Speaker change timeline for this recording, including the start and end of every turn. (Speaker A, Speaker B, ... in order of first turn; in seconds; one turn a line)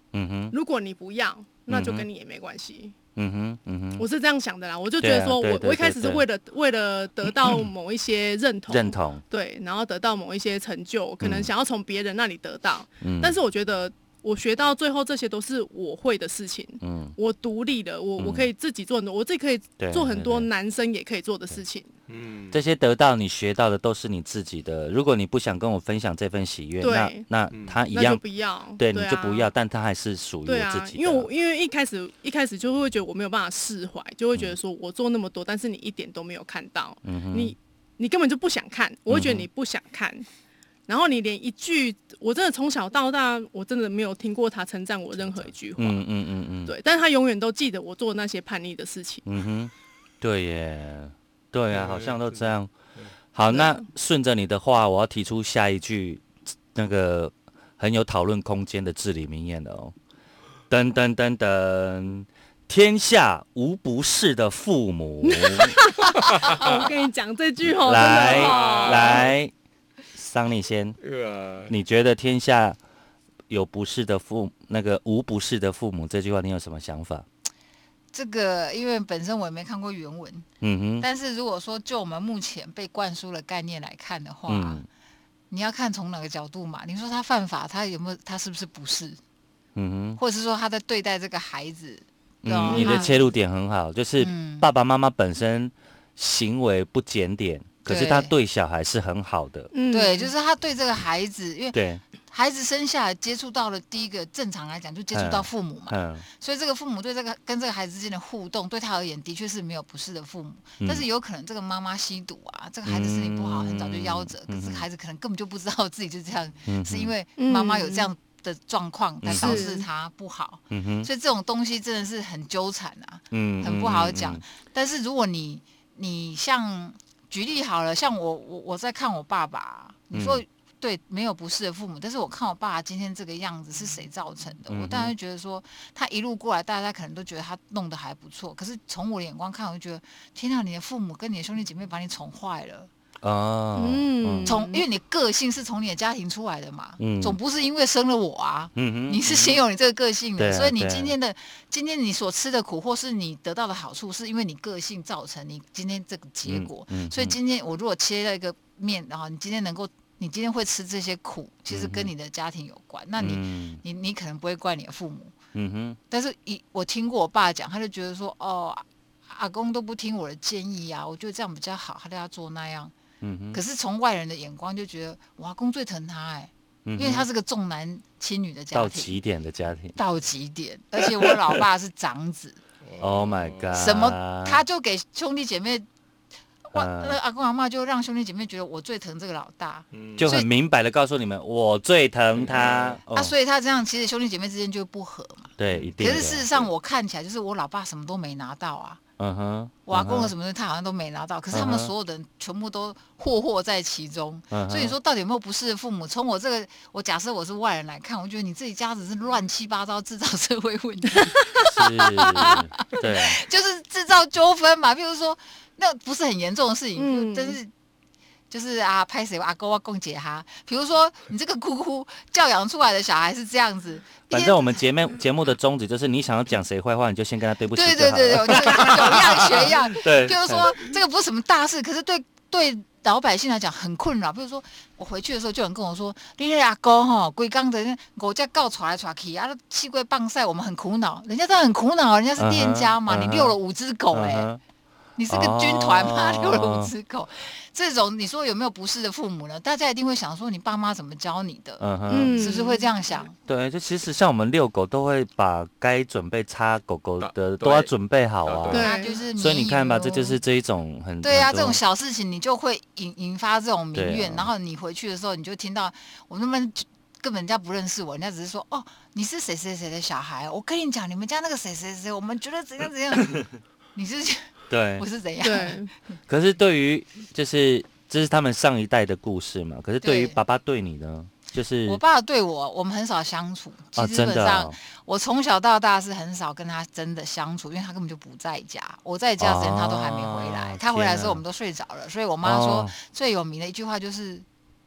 Speaker A: 0.1-0.5
Speaker B: 0.5-2.9
Speaker A: 1.7-2.0
Speaker A: 3.1-4.0
Speaker B: 4.0-21.9
Speaker A: 5.0-6.2
Speaker A: 8.7-9.2
Speaker A: 11.2-11.5
Speaker A: 13.0-13.3
Speaker A: 16.8-17.1
Speaker A: 18.2-18.5
Speaker A: 19.8-20.5
Speaker C: 22.1-22.6
Speaker A: 22.5-28.2
Speaker B: 26.8-27.2
Speaker C: 27.5-27.8
Speaker B: 27.9-29.5
Speaker A: 28.8-31.3
Speaker B: 30.4-40.2
Speaker A: 37.0-37.5
Speaker A: 39.1-39.5
Speaker B: 40.9-46.0
Speaker A: 45.8-46.7
Speaker B: 46.6-49.2
Speaker A: 49.2-52.7
Speaker C: 51.7-52.5
Speaker A: 53.3-59.9
Speaker B: 53.5-53.9
Speaker A: 60.7-65.8
Speaker B: 65.2-69.3
Speaker A: 67.8-69.5
Speaker C: 68.0-69.3
Speaker A: 70.1-71.0
Speaker C: 71.0-71.7
Speaker A: 71.7-72.8
Speaker A: 73.5-77.2
Speaker D: 78.1-80.5
Speaker A: 80.6-81.1
Speaker D: 81.0-84.8
Speaker A: 84.5-84.8
Speaker D: 85.5-89.2
Speaker A: 89.8-90.2
Speaker D: 90.2-93.3
Speaker A: 92.4-99.7
Speaker B: 92.7-93.1
Speaker D: 94.2-94.7
Speaker D: 97.9-98.3
Speaker B: 99.7-100.3
Speaker D: 99.9-101.8
Speaker A: 101.7-102.0
Speaker D: 102.3-142.9
Speaker A: 105.1-106.2
Speaker A: 110.8-111.0
Speaker A: 112.8-114.8
Speaker A: 116.7-117.1
Speaker B: 117.4-118.1
Speaker A: 119.2-119.6
Speaker B: 119.3-119.8
Speaker A: 120.7-121.1
Speaker A: 123.3-124.4
Speaker A: 130.1-130.4
Speaker A: 134.7-135.1
Speaker A: 143.2-144.6
Speaker B: 143.7-144.8
Speaker D: 144.4-165.3
Speaker A: 147.0-147.4
Speaker A: 148.8-149.5
Speaker A: 150.4-151.1
Speaker A: 156.4-157.3
Speaker A: 161.7-162.1
Speaker A: 163.2-163.8
Speaker A: 165.5-166.0
Speaker D: 166.1-172.9
Speaker A: 173.2-173.6
Speaker D: 173.5-179.2
Speaker A: 176.8-177.3
Speaker A: 178.7-180.0
Speaker D: 179.9-182.6
Speaker A: 181.2-181.6
Speaker C: 182.8-183.9
Speaker A: 183.0-184.6
Speaker D: 183.7-185.8
Speaker D: 186.6-190.5
Speaker A: 186.7-187.2
Speaker C: 189.9-190.3
Speaker A: 190.2-193.3
Speaker C: 192.3-193.0
Speaker D: 193.1-199.0
Speaker A: 195.6-196.5
Speaker C: 195.7-196.2
Speaker A: 199.2-200.3
Speaker D: 199.9-217.7
Speaker A: 201.5-201.9
Speaker A: 204.5-204.9
Speaker B: 211.1-211.7
Speaker A: 211.7-213.4
Speaker B: 217.0-217.6
Speaker D: 218.5-224.8
Speaker A: 224.3-230.7
Speaker D: 227.7-244.5
Speaker A: 242.4-243.5
Speaker A: 244.1-244.6
Speaker D: 245.2-253.3
Speaker A: 245.3-246.9
Speaker A: 251.8-252.6
Speaker B: 252.1-252.8
Speaker A: 253.4-261.8
Speaker C: 257.2-257.9
Speaker C: 258.4-258.9
Speaker B: 258.7-259.2
Speaker D: 258.7-260.4
Speaker D: 261.2-274.4
Speaker A: 263.9-264.5
Speaker A: 274.7-275.1
Speaker D: 275.0-275.8
Speaker B: 275.4-275.9
Speaker A: 276.3-282.0
Speaker D: 280.0-280.4
Speaker D: 281.9-294.4
Speaker A: 283.9-284.7
Speaker A: 289.4-291.4
Speaker A: 292.4-292.9